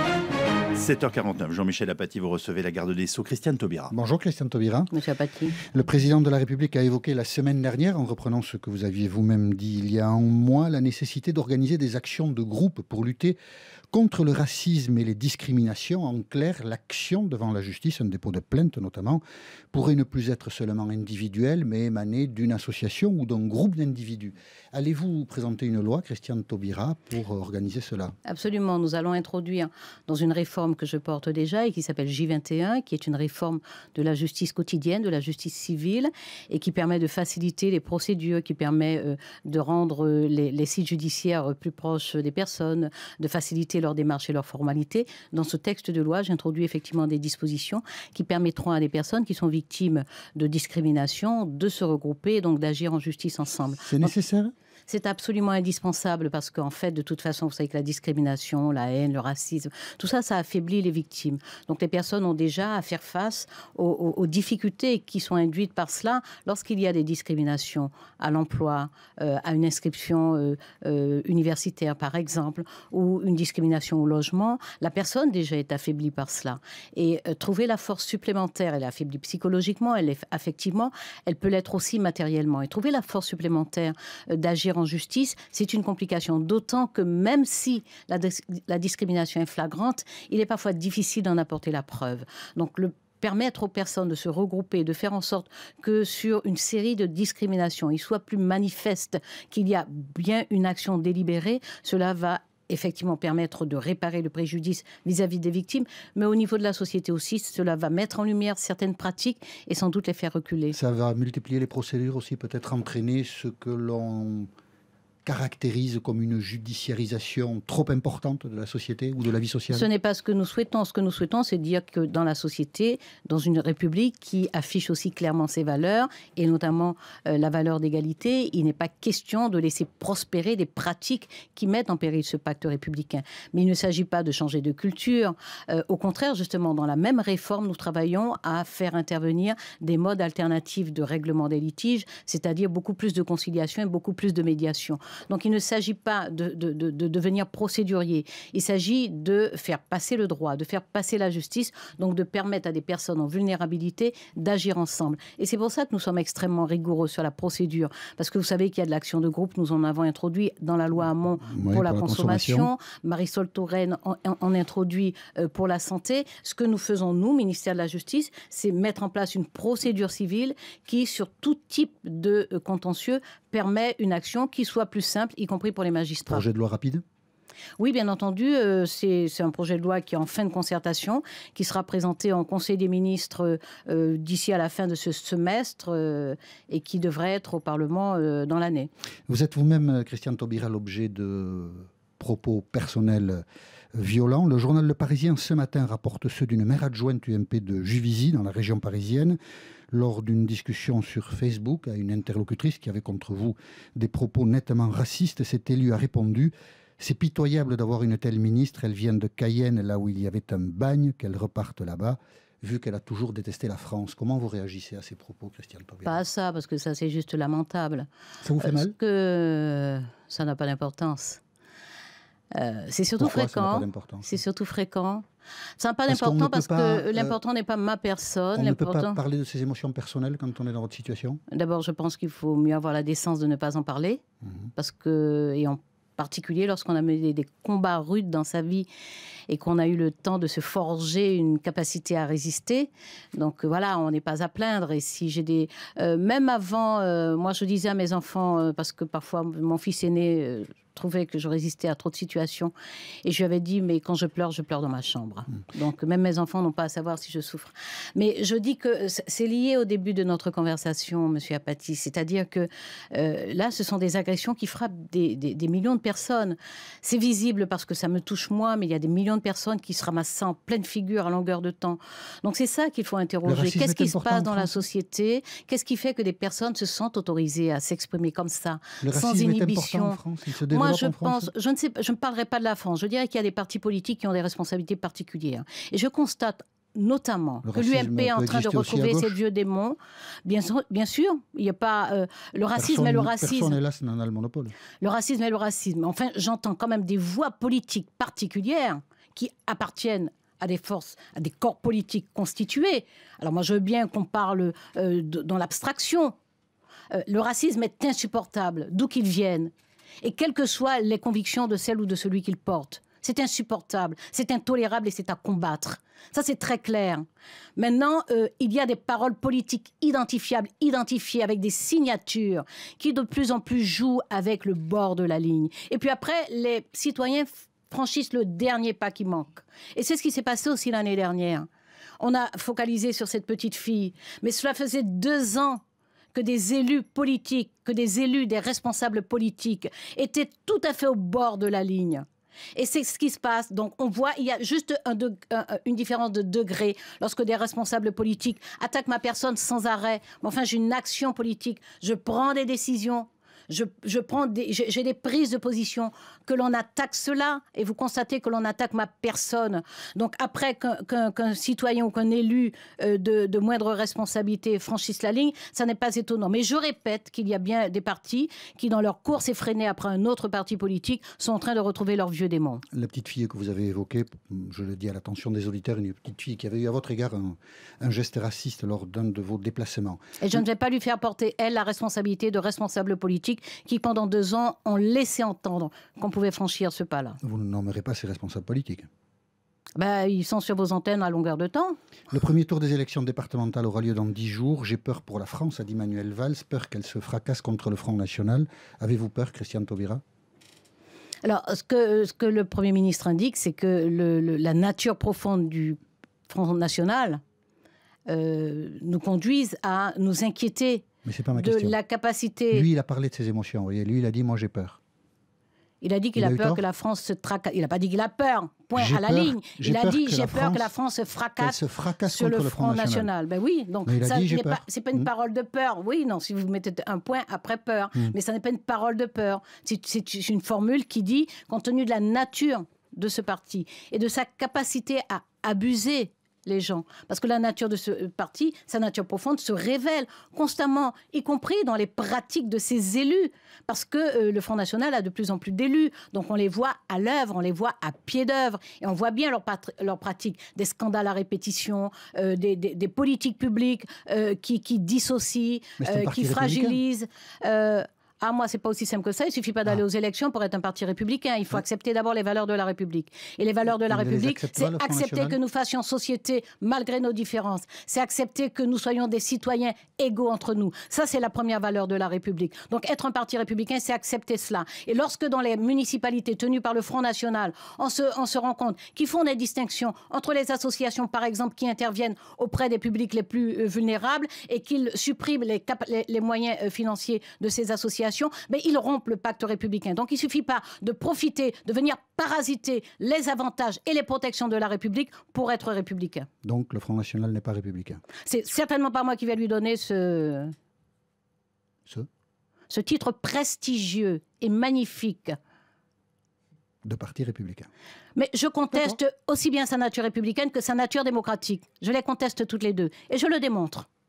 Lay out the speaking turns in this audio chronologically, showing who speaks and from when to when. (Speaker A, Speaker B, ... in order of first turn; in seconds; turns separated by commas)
Speaker A: 0.7-3.9, Speaker B: 3.9-4.9, Speaker C: 4.9-5.6, Speaker B: 5.6-13.4, Speaker B: 13.9-28.1, Speaker C: 28.2-54.1, Speaker B: 53.8-54.5, Speaker C: 54.9-110.8, Speaker B: 110.7-114.5, Speaker B: 115.2-119.9, Speaker C: 119.7-176.4, Speaker B: 161.5-162.7, Speaker B: 176.3-177.0, Speaker C: 177.8-188.9, Speaker B: 189.3-193.4, Speaker B: 193.9-199.4, Speaker B: 199.9-216.2, Speaker C: 216.0-218.1, Speaker B: 218.4-218.9, Speaker C: 218.6-221.4, Speaker C: 222.5-225.2, Speaker B: 223.2-224.4, Speaker C: 225.8-229.2, Speaker B: 226.1-227.3, Speaker B: 228.5-231.4, Speaker C: 231.5-234.2, Speaker C: 234.8-238.9, Speaker C: 239.5-252.7, Speaker C: 253.2-293.8, Speaker B: 273.4-274.8, Speaker B: 279.0-281.5, Speaker B: 287.6-289.4, Speaker B: 292.8-294.7, Speaker C: 295.0-306.3, Speaker C: 307.1-317.2, Speaker C: 317.8-331.7, Speaker C: 332.2-335.8, Speaker C: 336.3-372.8, Speaker B: 372.9-380.2, Speaker C: 380.4-387.4, Speaker B: 387.4-389.1, Speaker C: 390.0-392.0, Speaker B: 392.3-400.2, Speaker C: 401.4-407.4, Speaker C: 408.3-412.9, Speaker B: 411.2-412.0, Speaker B: 412.7-415.0, Speaker C: 416.0-496.5, Speaker B: 416.4-416.8, Speaker B: 418.9-420.9, Speaker B: 421.6-423.3, Speaker B: 424.1-425.3, Speaker B: 456.0-457.0, Speaker B: 464.1-465.6, Speaker B: 496.6-498.2, Speaker C: 498.4-500.7, Speaker C: 502.9-505.6, Speaker B: 507.0-507.9, Speaker C: 508.3-514.1